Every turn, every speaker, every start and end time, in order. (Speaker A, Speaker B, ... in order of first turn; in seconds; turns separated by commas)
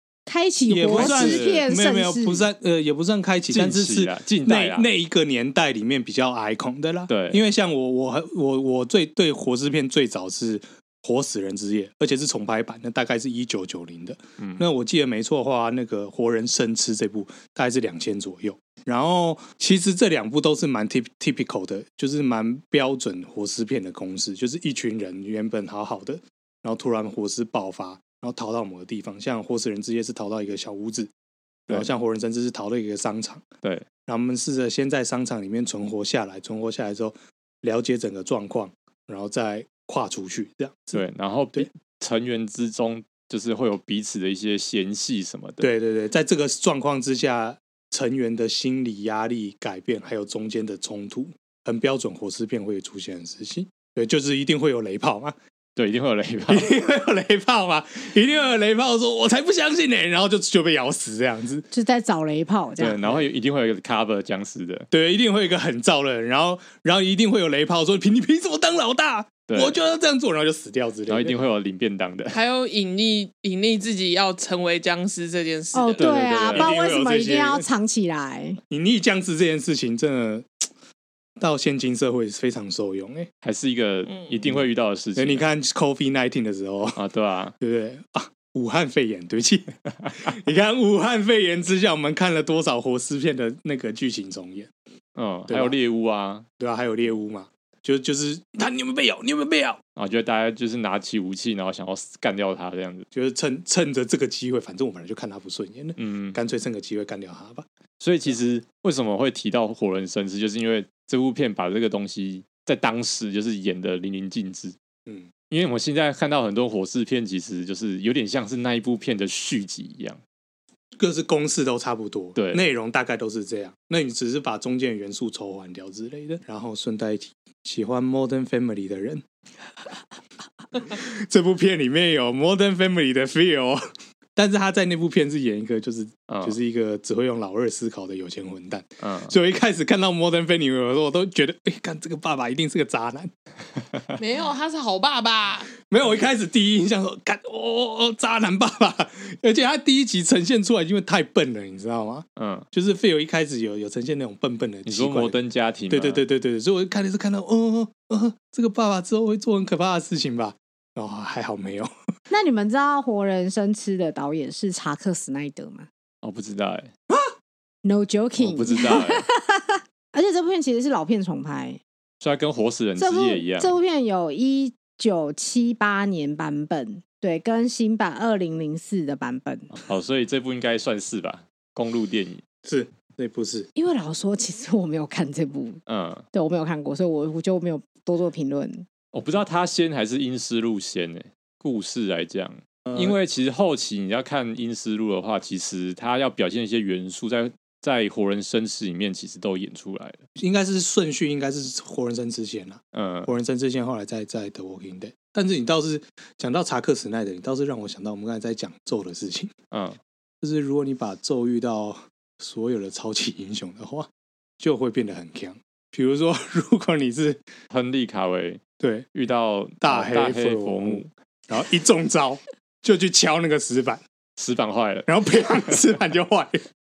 Speaker A: 0.2-2.5, Speaker B: 0.7-31.1, Speaker C: 0.9-1.6, Speaker C: 3.5-4.9, Speaker C: 7.1-7.4, Speaker C: 14.4-14.6, Speaker B: 31.7-33.5, Speaker B: 34.0-41.7, Speaker C: 40.9-45.7, Speaker B: 45.6-55.3, Speaker C: 55.8-56.7, Speaker B: 56.5-61.6, Speaker A: 61.7-63.0, Speaker C: 62.8-64.9, Speaker B: 64.9-71.4, Speaker C: 69.5-69.8, Speaker C: 71.1-72.4, Speaker D: 72.3-76.2, Speaker A: 75.7-78.6, Speaker C: 76.0-76.7, Speaker B: 76.5-77.7, Speaker B: 78.7-80.6, Speaker B: 81.4-83.3, Speaker C: 83.4-85.4, Speaker D: 84.0-84.4, Speaker B: 85.2-87.0, Speaker C: 87.0-87.5, Speaker B: 87.6-94.7, Speaker C: 95.1-96.5, Speaker B: 95.5-95.8, Speaker B: 96.6-99.8, Speaker C: 100.0-103.0, Speaker B: 103.1-107.7, Speaker C: 106.0-106.4, Speaker C: 108.0-114.8, Speaker C: 115.5-120.2, Speaker B: 121.0-129.2, Speaker C: 122.3-122.6, Speaker B: 130.8-133.8, Speaker B: 134.3-143.3, Speaker C: 136.3-136.6, Speaker C: 139.0-139.3, Speaker D: 144.2-145.7, Speaker B: 145.8-155.4, Speaker C: 152.3-152.7, Speaker C: 154.8-156.2, Speaker B: 155.9-161.9, Speaker A: 162.3-165.9, Speaker C: 166.2-166.9, Speaker A: 167.8-171.8, Speaker C: 168.4-169.2, Speaker C: 172.2-173.7, Speaker A: 173.0-179.7, Speaker C: 179.8-182.4, Speaker B: 182.6-183.7, Speaker A: 183.7-185.8, Speaker C: 185.9-186.2, Speaker A: 186.3-188.9, Speaker C: 189.1-200.2, Speaker B: 192.8-193.2, Speaker B: 200.4-209.5, Speaker C: 202.9-203.3, Speaker C: 209.7-210.0, Speaker B: 210.4-214.1, Speaker B: 214.6-217.4, Speaker C: 217.7-218.6, Speaker B: 218.8-219.1, Speaker C: 219.1-221.1, Speaker B: 219.8-224.0, Speaker C: 224.4-225.1, Speaker B: 225.1-226.6